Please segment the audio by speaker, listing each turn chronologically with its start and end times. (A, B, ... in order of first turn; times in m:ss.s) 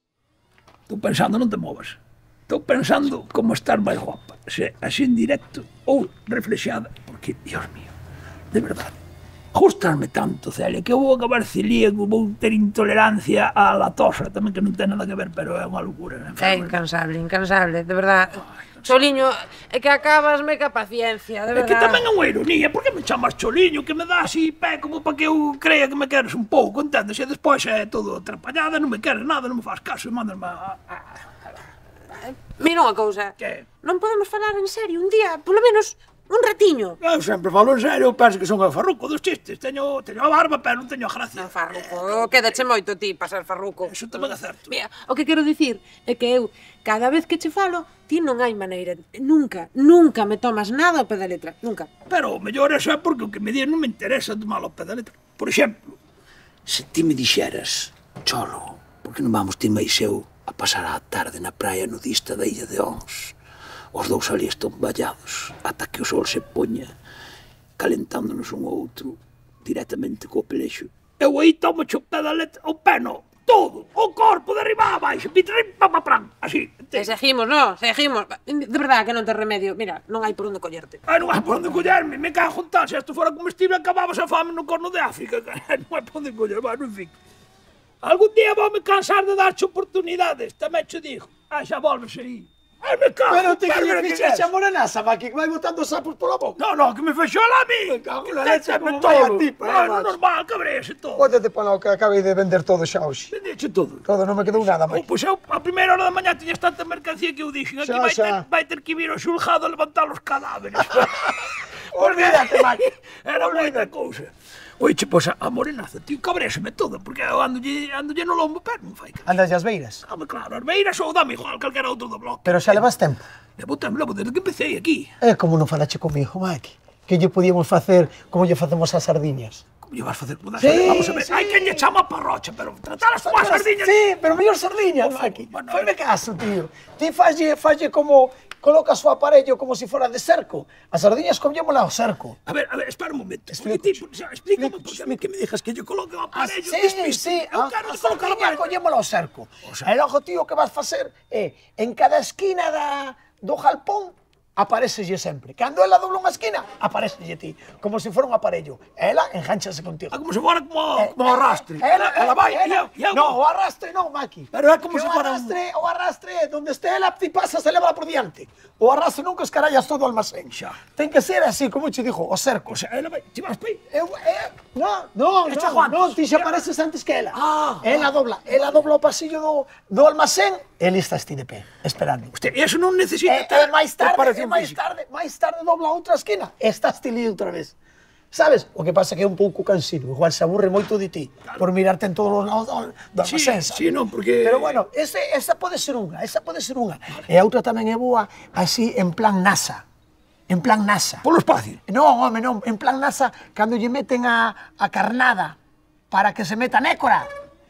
0:00.9-0:07.9 A
0:08.5-0:09.0 A
0:09.5-0:16.7 A
0:16.4-0:22.1 B
0:18.6-0:19.2 A
0:21.5-0:31.4 A
0:32.1-0:37.0 B
0:33.4-0:33.7 A
0:37.0-0:42.6 A
0:41.4-0:51.9 B
0:43.8-0:44.7 A
0:52.1-0:55.8 A
0:56.6-1:03.4 A
1:03.9-1:06.9 A
1:07.8-1:17.1 A
1:16.9-1:21.0 B
1:21.1-1:27.1 A
1:28.0-1:34.5 A
1:33.3-1:36.6 C
1:36.6-1:41.3 A
1:37.9-1:40.2 C
1:41.2-1:43.3 C
1:43.3-1:44.0 A
1:44.0-1:45.0 C
1:44.6-1:59.3 A
1:47.8-1:48.4 C
1:50.8-1:51.3 C
1:51.9-1:52.8 C
1:53.4-1:53.9 C
1:59.2-2:00.0 C
2:00.0-2:02.8 A
2:02.4-2:03.2 C
2:03.6-2:05.1 A
2:05.2-2:09.6 C
2:09.8-2:13.9 A
2:10.6-2:11.8 C
2:13.2-2:22.4 C
2:15.0-2:15.9 A
2:22.4-2:28.7 A
2:23.5-2:24.0 C
2:24.6-2:25.2 C
2:26.3-2:40.2 C
2:29.6-2:29.9 A
2:40.1-2:43.4 A
2:41.0-2:52.7 C
2:44.5-2:45.6 A
2:50.5-2:50.8 A
2:52.6-2:53.8 A
2:53.9-3:02.4 C
2:55.4-2:56.6 A
2:57.3-2:58.1 A
3:02.3-3:04.8 A
3:03.2-3:07.8 C
3:08.3-3:13.9 C
3:13.2-3:14.8 A
3:14.4-3:19.8 C
3:20.5-3:21.2 C
3:21.2-3:21.8 A
3:21.9-3:25.6 C
3:26.1-3:27.3 C